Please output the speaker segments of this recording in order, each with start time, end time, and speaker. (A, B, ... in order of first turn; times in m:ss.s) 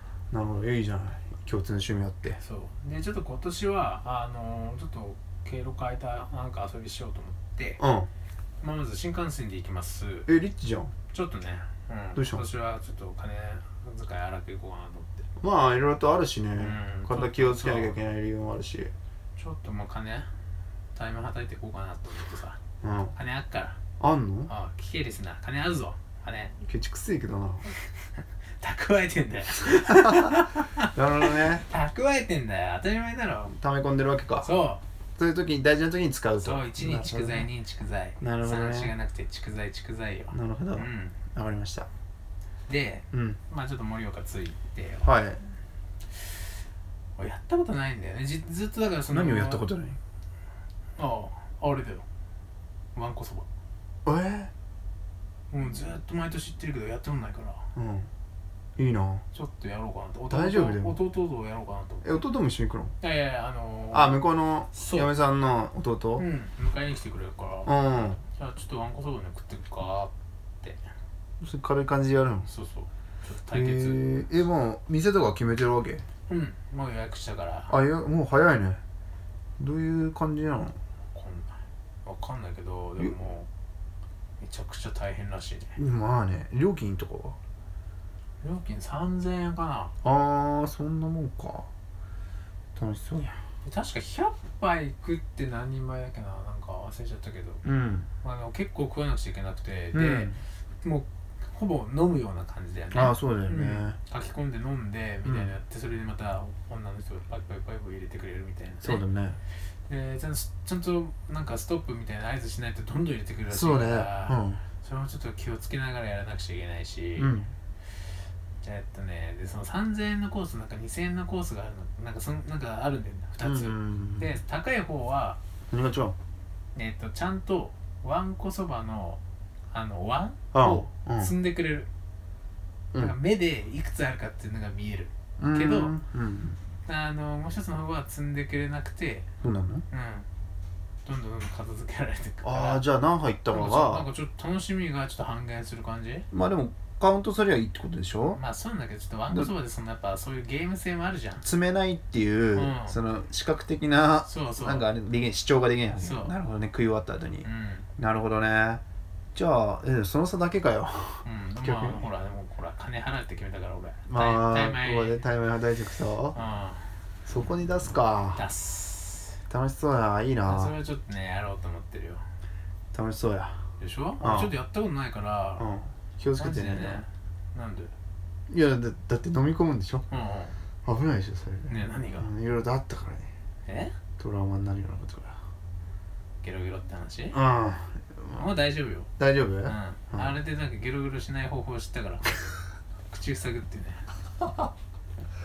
0:00.3-0:02.4 A
0:02.4-0:07.8 B
0:07.8-0:08.1 A
0:08.6-0:10.3 B
0:10.3-0:10.9 A
0:11.1-0:15.2 B
0:12.2-0:12.4 A
0:15.4-0:18.9 A
0:16.6-0:18.0 B
0:19.4-0:20.3 B
0:20.9-0:22.6 B
0:22.8-0:23.1 A
0:23.1-0:23.8 B
0:24.0-0:24.5 A
0:24.5-0:26.5 B
0:26.6-0:27.7 A
0:28.6-0:33.6 B
0:29.6-0:31.6 A
0:33.5-0:34.6 A
0:34.4-0:34.8 B
0:35.2-0:37.5 A
0:36.4-0:41.2 B
0:38.2-0:38.9 A
0:40.3-0:41.9 A
0:42.7-0:45.1 B
0:43.1-0:43.4 A
0:45.0-0:45.4 A
0:47.2-0:49.6 B
0:49.1-0:50.0 A
0:51.0-0:52.0 B
0:52.9-0:53.5 B
0:54.0-0:54.5 A
0:55.5-0:57.6 B
0:57.7-0:58.1 A
0:58.8-0:59.2 A
0:59.3-1:02.2 B
1:00.3-1:01.0 A
1:02.0-1:02.9 A
1:03.0-1:05.1 B
1:03.9-1:06.2 A
1:06.2-1:10.8 B
1:07.6-1:08.2 A
1:11.4-1:12.5 A
1:12.5-1:14.1 B
1:13.5-1:16.0 A
1:16.3-1:17.7 B
1:17.7-1:18.8 A
1:19.6-1:20.8 A
1:21.1-1:23.5 B
1:24.4-1:25.8 B
1:25.8-1:27.4 A
1:28.4-1:29.9 B
1:30.0-1:31.7 A
1:32.8-1:33.4 A
1:33.6-1:37.6 B
1:37.6-1:38.1 A
1:38.2-1:49.0 B
1:39.9-1:40.4 A
1:42.9-1:44.0 A
1:45.2-1:45.5 A
1:48.8-1:49.4 A
1:49.9-1:57.4 B
1:53.5-1:54.6 A
1:57.2-1:57.5 A
1:58.6-2:05.4 B
2:03.4-2:04.3 A
2:05.7-2:06.2 A
2:06.7-2:11.9 B
2:10.5-2:11.3 A
2:13.0-2:15.9 B
2:15.4-2:16.6 A
2:16.8-2:19.3 B
2:19.4-2:19.8 A
2:19.9-2:20.3 B
2:21.0-2:22.8 B
2:22.4-2:24.1 A
2:23.5-2:26.3 B
2:26.3-2:28.4 A
2:28.2-2:31.4 B
2:31.4-2:38.8 A
2:32.5-2:33.0 B
2:34.2-2:34.9 B
2:36.0-2:36.3 B
2:37.4-2:37.9 B
2:39.3-2:42.0 A
2:41.2-2:45.2 B
2:44.1-2:46.4 A
2:46.3-2:46.9 B
2:47.2-2:48.5 A
2:48.3-2:49.4 B
2:49.5-2:50.7 A
2:50.4-2:52.2 B
2:52.9-2:53.6 A
2:53.8-2:55.7 B
2:54.2-2:54.5 A
2:55.6-2:57.0 A
2:56.4-2:57.9 B
2:58.5-3:00.1 A
3:00.1-3:00.6 B
3:00.8-3:03.3 A
3:01.7-3:02.3 B
3:03.6-3:03.9 B
3:04.2-3:05.4 A
3:06.4-3:07.4 B
3:07.3-3:08.5 A
3:08.3-3:09.1 B
3:09.2-3:10.4 A
3:09.6-3:14.0 B